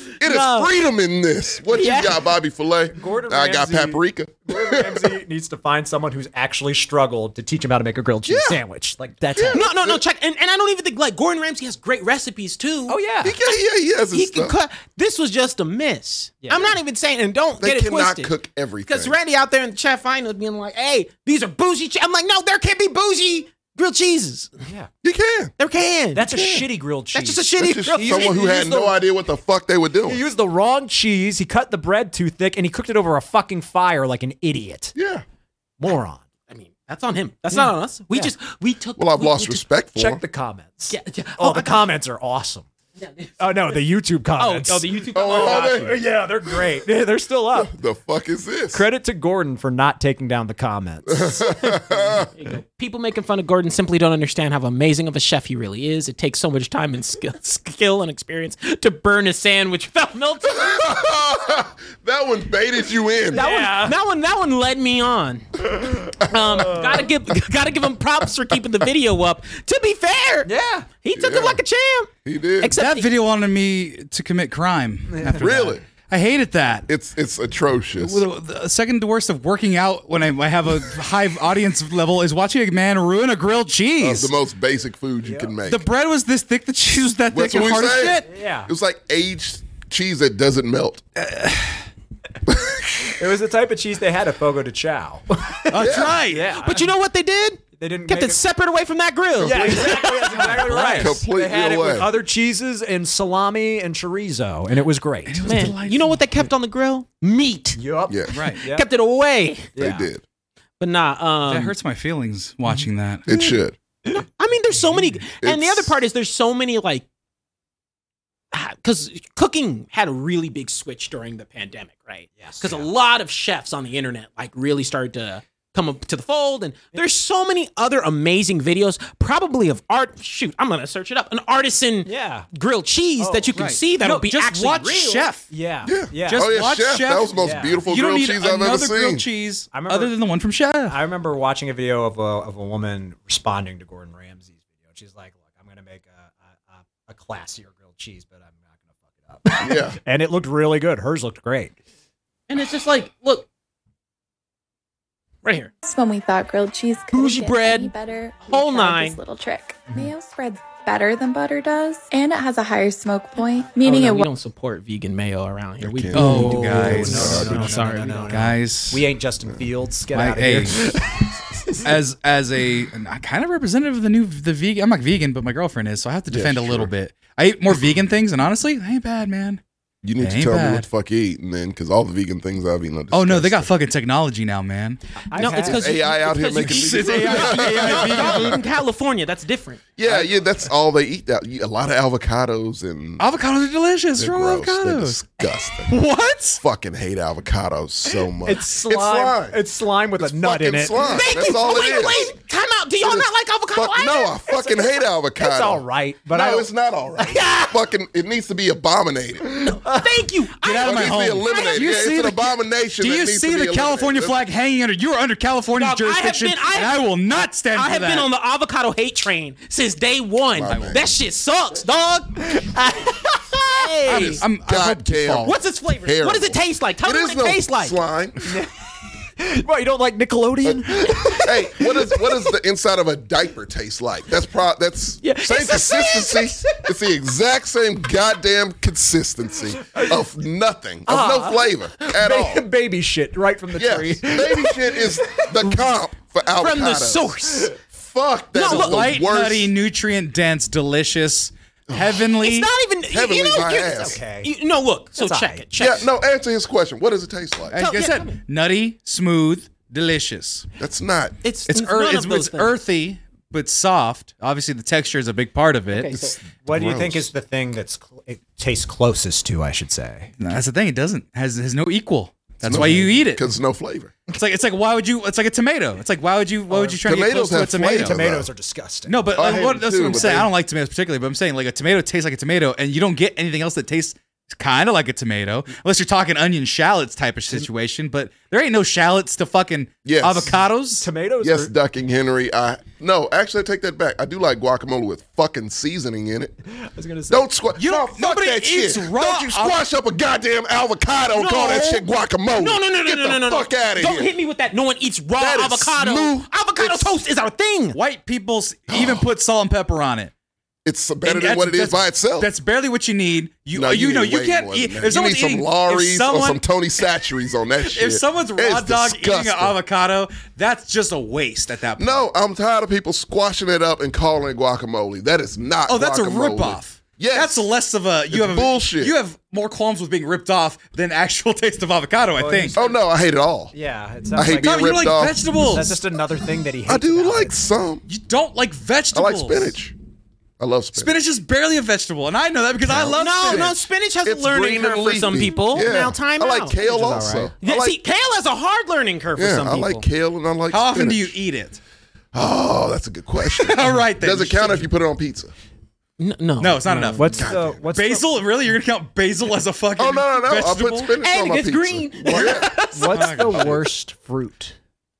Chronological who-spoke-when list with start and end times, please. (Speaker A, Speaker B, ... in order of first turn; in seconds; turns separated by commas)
Speaker A: 0.2-5.1, Speaker B: 0.2-0.7, Speaker B: 1.7-2.3, Speaker C: 2.9-9.7, Speaker A: 8.2-8.6, Speaker A: 9.3-10.0, Speaker B: 9.5-13.6, Speaker C: 12.9-13.3, Speaker A: 13.2-14.5, Speaker B: 14.1-18.3, Speaker C: 16.4-16.8, Speaker A: 17.6-19.1, Speaker B: 18.9-24.5, Speaker A: 25.0-25.5, Speaker B: 25.6-26.3, Speaker C: 26.1-28.9, Speaker A: 26.3-26.6, Speaker B: 27.1-28.9, Speaker A: 27.6-30.2, Speaker C: 30.0-35.0, Speaker A: 35.0-35.2, Speaker C: 35.8-36.2, Speaker B: 36.5-39.6, Speaker C: 37.5-38.3, Speaker A: 39.0-40.2, Speaker C: 39.9-42.7, Speaker B: 40.9-41.9, Speaker B: 43.0-43.8, Speaker C: 43.4-47.7, Speaker B: 44.4-46.0, Speaker A: 45.1-46.0, Speaker A: 47.5-48.8, Speaker C: 48.7-52.3, Speaker A: 51.1-52.3, Speaker B: 52.2-61.1, Speaker A: 60.5-63.4, Speaker B: 63.3-70.5, Speaker C: 63.3-64.0, Speaker C: 70.4-70.9, Speaker B: 71.0-73.1, Speaker A: 71.1-71.6, Speaker A: 72.2-72.7, Speaker D: 72.8-76.9, Speaker C: 75.1-75.8, Speaker A: 75.4-75.8, Speaker A: 76.9-78.2, Speaker D: 78.0-84.3, Speaker A: 84.0-85.8, Speaker C: 85.2-85.5, Speaker D: 85.7-88.3, Speaker A: 87.3-91.0, Speaker C: 88.1-88.7, Speaker D: 91.2-91.8, Speaker A: 92.5-93.2, Speaker C: 93.2-96.9, Speaker D: 95.7-96.5, Speaker A: 95.8-96.2, Speaker B: 96.5-101.0, Speaker C: 97.8-98.4, Speaker C: 99.4-105.5, Speaker A: 99.4-100.1, Speaker D: 100.4-101.2, Speaker A: 100.6-102.1, Speaker D: 105.2-106.2, Speaker B: 105.4-107.8, Speaker C: 107.8-108.9, Speaker A: 108.1-108.4, Speaker D: 108.3-108.6, Speaker B: 108.6-109.7, Speaker C: 109.8-110.1, Speaker A: 109.8-110.2, Speaker B: 110.8-111.7, Speaker D: 111.5-113.3, Speaker A: 113.3-113.8, Speaker B: 114.1-117.0, Speaker A: 115.4-115.9, Speaker B: 118.5-135.3, Speaker C: 122.4-122.9, Speaker C: 132.0-132.5, Speaker C: 133.2-133.6, Speaker D: 133.5-135.5, Speaker C: 135.5-136.5, Speaker A: 135.8-139.2, Speaker D: 136.2-141.0, Speaker C: 137.3-137.8, Speaker C: 139.7-140.1, Speaker C: 140.9-151.8, Speaker A: 149.6-150.0, Speaker B: 152.5-153.5, Speaker B: 155.4-155.7, Speaker E: 155.8-164.3, Speaker B: 157.1-157.9, Speaker B: 158.5-159.2, Speaker B: 163.8-168.5, Speaker A: 165.8-167.7, Speaker D: 166.1-169.1, Speaker C: 166.3-171.9, Speaker D: 170.1-170.9, Speaker D: 171.8-179.6, Speaker A: 176.3-176.9, Speaker A: 180.0-183.7, Speaker D: 180.2-180.9, Speaker D: 183.1-185.4, Speaker C: 185.3-185.8, Speaker B: 185.3-190.0, Speaker A: 185.5-188.6, Speaker D: 186.6-188.6, Speaker C: 187.6-188.2, Speaker A: 190.0-193.2, Speaker D: 193.2-195.2, Speaker A: 194.2-195.9, Speaker D: 195.9-196.6, Speaker A: 196.6-199.6, Speaker C: 198.4-201.2, Speaker A: 200.2-202.3, Speaker B: 201.0-204.6, Speaker A: 203.0-209.6, Speaker C: 205.4-207.4, Speaker B: 207.3-207.7, Speaker C: 209.5-210.1, Speaker B: 209.6-212.1, Speaker D: 210.6-218.3, Speaker A: 210.8-214.4, Speaker B: 215.8-222.7, Speaker A: 220.5-221.1, Speaker D: 220.7-221.0, Speaker C: 222.4-224.0, Speaker B: 223.3-224.4, Speaker D: 224.0-225.6, Speaker A: 224.1-228.6, Speaker B: 225.4-227.9, Speaker C: 228.4-228.8, Speaker C: 229.4-232.5, Speaker A: 230.6-242.6, Speaker B: 235.2-236.8, Speaker C: 239.8-240.2, Speaker C: 241.1-245.9, Speaker A: 243.8-249.7, Speaker B: 246.5-247.8, Speaker B: 248.5-249.2, Speaker D: 248.7-252.7, Speaker A: 251.9-252.2, Speaker B: 252.4-256.1, Speaker A: 253.1-254.2, Speaker C: 253.8-254.5, Speaker C: 255.2-255.6, Speaker A: 255.8-257.8, Speaker D: 257.7-260.7, Speaker B: 257.8-258.4, Speaker A: 260.8-261.3, Speaker B: 261.4-262.7, Speaker D: 261.7-266.1, Speaker B: 265.9-266.4, Speaker C: 266.6-270.3, Speaker A: 266.7-267.2, Speaker D: 270.4-273.5, Speaker A: 272.6-274.1, Speaker C: 272.7-273.1, Speaker D: 274.3-278.2, Speaker C: 276.7-277.0, Speaker A: 277.0-278.5, Speaker C: 277.8-279.3, Speaker D: 279.1-291.1, Speaker A: 279.3-280.5, Speaker A: 290.0-290.6, Speaker C: 291.0-291.7, Speaker A: 291.4-296.5, Speaker C: 296.7-297.5, Speaker A: 297.3-304.3, Speaker D: 297.7-299.8, Speaker B: 301.3-308.0, Speaker A: 305.4-307.2, Speaker D: 307.9-310.3, Speaker A: 308.9-309.3, Speaker A: 310.8-312.5, Speaker D: 311.2-316.6, Speaker A: 313.7-319.8, Speaker D: 317.8-322.3, Speaker A: 322.0-327.7, Speaker D: 325.9-332.8, Speaker A: 328.3-329.1, Speaker C: 332.4-333.0, Speaker A: 332.7-333.7, Speaker C: 333.7-337.5, Speaker A: 334.3-335.4, Speaker D: 334.6-336.0, Speaker A: 336.9-338.0, Speaker D: 338.1-339.8, Speaker A: 339.1-339.9, Speaker A: 340.6-341.1, Speaker D: 340.9-343.8, Speaker A: 342.8-348.0, Speaker B: 343.1-350.1, Speaker C: 346.8-347.5, Speaker A: 349.4-351.3, Speaker D: 350.7-351.8, Speaker A: 352.3-355.5, Speaker D: 353.5-354.9, Speaker B: 356.2-357.3, Speaker D: 356.6-361.1, Speaker C: 356.9-358.3, Speaker A: 357.4-357.8, Speaker A: 360.0-362.9, Speaker B: 361.2-363.4, Speaker C: 362.9-364.7, Speaker D: 363.1-363.8, Speaker A: 363.5-363.8